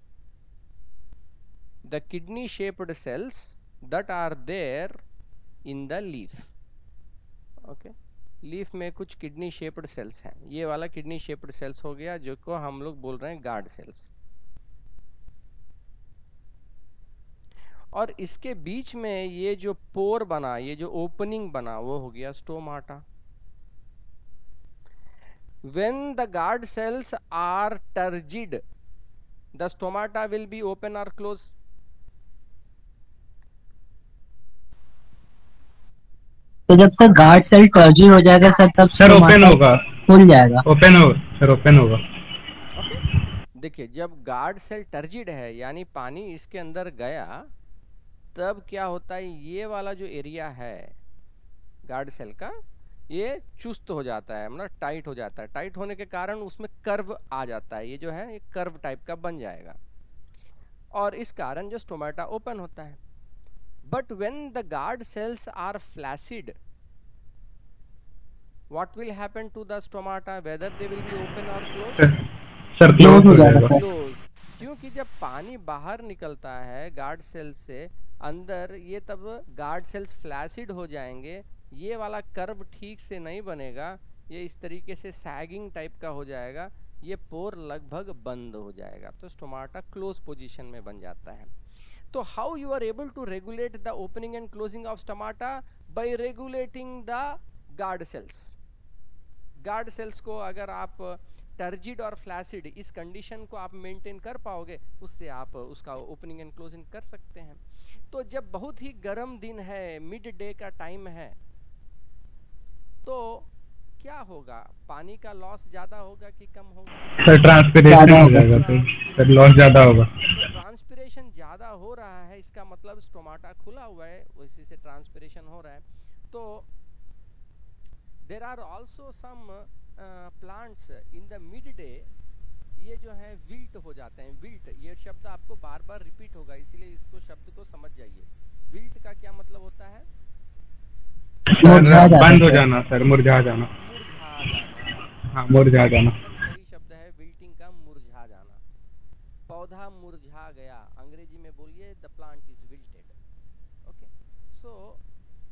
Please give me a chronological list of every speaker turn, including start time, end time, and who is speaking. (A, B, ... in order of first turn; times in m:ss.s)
0:01.9-0:05.0 A
0:05.7-0:06.5 A
0:07.6-0:14.1 A
0:17.9-0:23.0 A
0:25.7-0:28.6 A
0:29.6-0:31.5 A
0:36.7-0:40.6 B
0:39.0-0:39.8 C
0:40.6-0:42.0 C
0:42.7-0:43.0 A
0:43.6-0:47.5 A
0:48.3-0:50.9 A
0:51.9-0:52.5 A
0:53.1-0:59.8 A
1:00.9-1:03.0 A
1:03.9-1:06.5 A
1:08.7-1:12.1 A
1:12.8-1:13.8 C
1:13.0-1:13.8 B
1:13.7-1:31.5 A
1:32.1-1:38.5 A
1:39.6-1:51.4 A
1:53.0-1:53.5 A
1:54.0-1:57.0 A
1:57.2-2:00.2 C
1:57.8-1:58.5 B
1:58.3-2:06.7 A
2:08.2-2:12.1 A
2:12.8-2:20.1 A
2:21.5-2:23.7 C
2:21.6-2:22.6 B
2:23.7-2:25.1 A
2:25.3-2:26.2 C
2:25.8-2:28.6 A
2:29.5-2:33.1 A
2:33.8-2:35.0 A